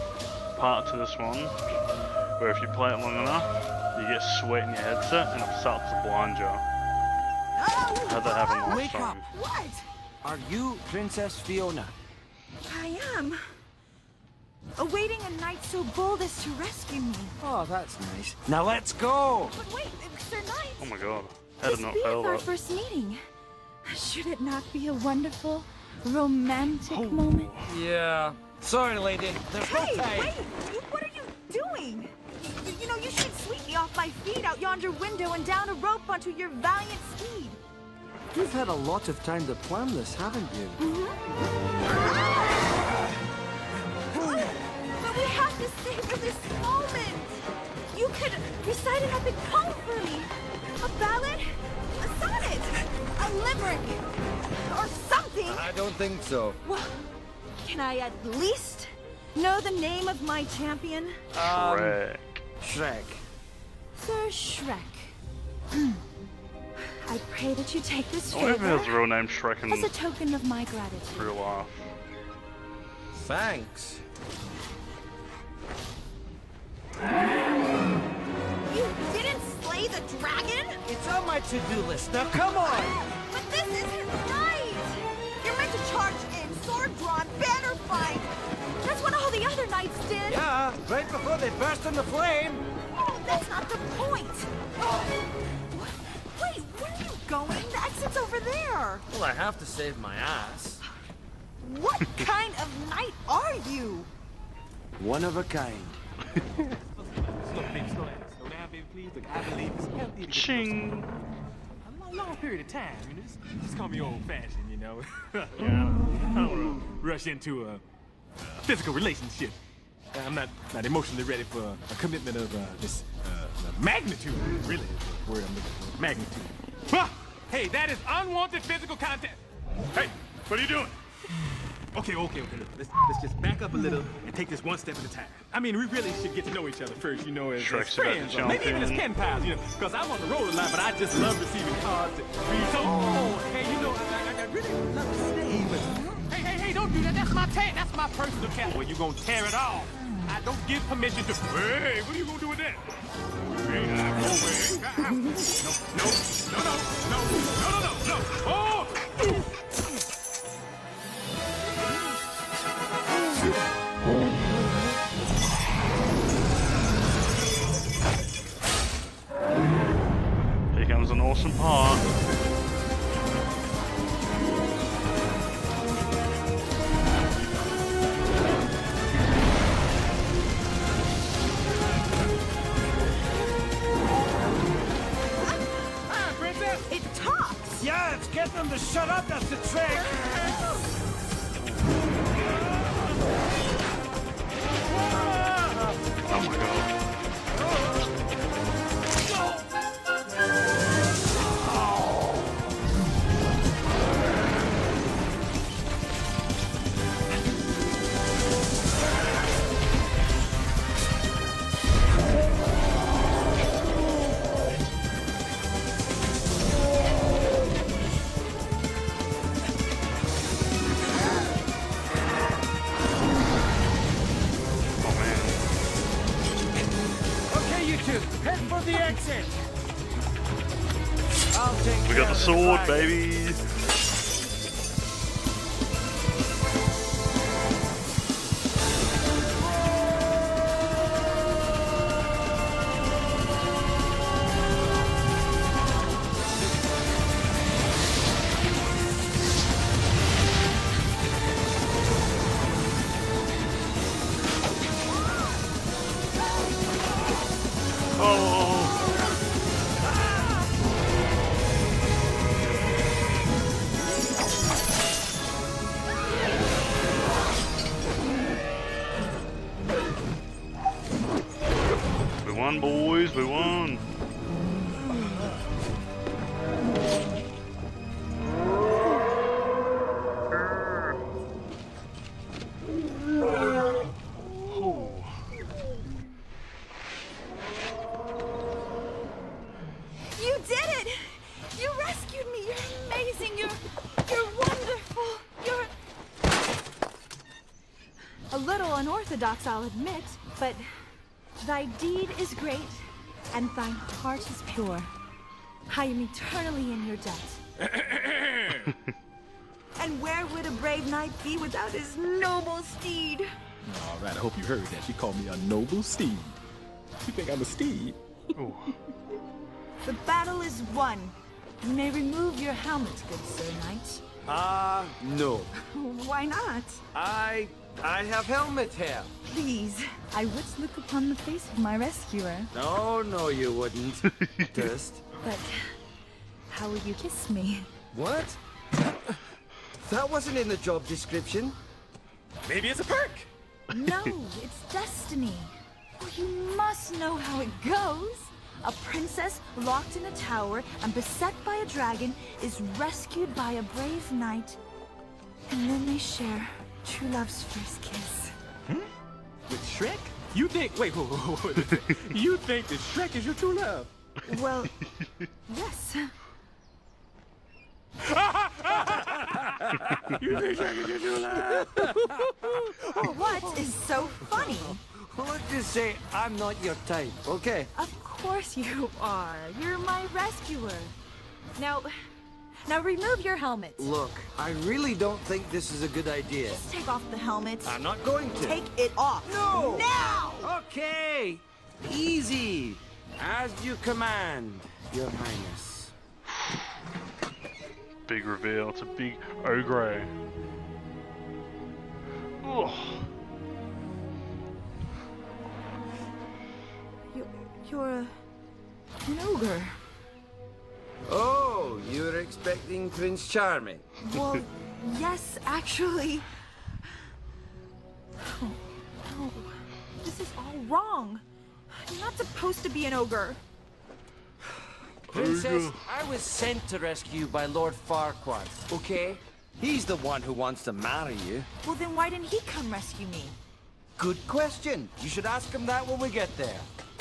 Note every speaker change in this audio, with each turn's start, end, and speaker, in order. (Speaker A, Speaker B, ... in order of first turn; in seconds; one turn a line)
Speaker A: 0.5-1.6
Speaker A: 2.4-6.6
Speaker B: 7.5-9.8
Speaker A: 8.1-9.3
Speaker C: 8.6-9.2
Speaker C: 10.2-11.9
Speaker B: 12.7-13.4
Speaker B: 14.8-17.3
Speaker C: 17.4-19.6
Speaker B: 19.4-20.9
Speaker A: 20.8-22.5
Speaker B: 21.6-23.2
Speaker B: 23.8-27.5
Speaker A: 26.9-27.7
Speaker C: 27.6-30.3
Speaker B: 29.6-37.6
Speaker C: 38.3-40.8
Speaker B: 40.8-41.2
Speaker B: 42.0-42.6
Speaker B: 44.1-47.4
Speaker B: 47.9-55.7
Speaker C: 55.4-56.6
Speaker B: 56.6-57.0
Speaker B: 57.6-61.2
Speaker A: 61.3-62.4
Speaker C: 61.4-62.0
Speaker C: 62.6-63.2
Speaker B: 63.9-65.1
Speaker B: 66.9-69.0
Speaker A: 68.3-69.9
Speaker B: 69.7-71.3
Speaker A: 71.1-71.9
Speaker C: 73.1-74.0
Speaker B: 78.7-80.8
Speaker C: 80.8-83.0
Speaker B: 82.6-88.3
Speaker B: 88.8-90.4
Speaker C: 90.3-92.6
Speaker B: 92.9-94.5
Speaker B: 95.7-99.0
Speaker C: 99.1-100.8
Speaker B: 101.6-104.1
Speaker C: 105.0-106.0
Speaker D: 106.6-111.0
Speaker A: 110.3-111.1
Speaker D: 111.8-117.8
Speaker D: 118.4-119.6
Speaker D: 120.1-129.4
Speaker D: 129.9-131.0
Speaker D: 131.9-152.8
Speaker A: 137.6-139.2
Speaker C: 142.9-143.2
Speaker D: 153.4-159.0
Speaker A: 170.7-172.1
Speaker D: 186.2-186.8
Speaker B: 186.9-187.8
Speaker C: 187.8-190.5
Speaker A: 196.3-196.9
Speaker A: 225.0-225.6
Speaker C: 227.5-229.6
Speaker C: 231.5-233.1
Speaker A: 232.0-233.6
Speaker A: 258.1-259.0
Speaker A: 272.4-274.0
Speaker A: 284.7-285.4
Speaker B: 290.2-295.9
Speaker B: 298.5-300.9
Speaker B: 301.6-305.1
Speaker B: 305.9-307.6
Speaker D: 307.8-308.9
Speaker B: 310.0-313.5
Speaker D: 313.9-316.6
Speaker D: 317.2-318.2
Speaker A: 318.6-318.9
Speaker B: 320.0-324.2
Speaker C: 324.4-325.7
Speaker B: 325.8-327.0
Speaker C: 327.1-329.3
Speaker B: 329.4-332.7
Speaker C: 332.7-335.2
Speaker B: 335.4-336.0
Speaker B: 336.7-337.9
Speaker C: 338.1-338.6
Speaker C: 339.9-341.8
Speaker D: 342.6-343.5
Speaker B: 343.9-354.8
Speaker B: 355.7-358.5
Speaker D: 359.7-364.1
Speaker B: 364.4-364.9
Speaker B: 365.7-366.3
Speaker D: 368.2-372.5
Speaker C: 368.9-377.9
Speaker D: 373.0-373.3
Speaker B: 373.1-375.0
Speaker B: 377.9-381.1
Speaker B: 381.7-382.3
Speaker B: 382.9-384.1
Speaker C: 384.0-386.8
Speaker B: 386.6-388.0
Speaker C: 387.8-388.8
Speaker B: 388.5-390.7
Speaker C: 389.4-396.1
Speaker A: 398.3-400.3
Speaker A: 402.6-403.3
Speaker B: 407.3-408.3
Speaker B: 409.2-410.0
Speaker C: 411.3-414.1
Speaker B: 414.2-416.5
Speaker B: 418.4-423.6
Speaker C: 425.3-431.7
Speaker A: 425.3-426.0
Speaker B: 431.8-433.6
Speaker C: 434.2-436.9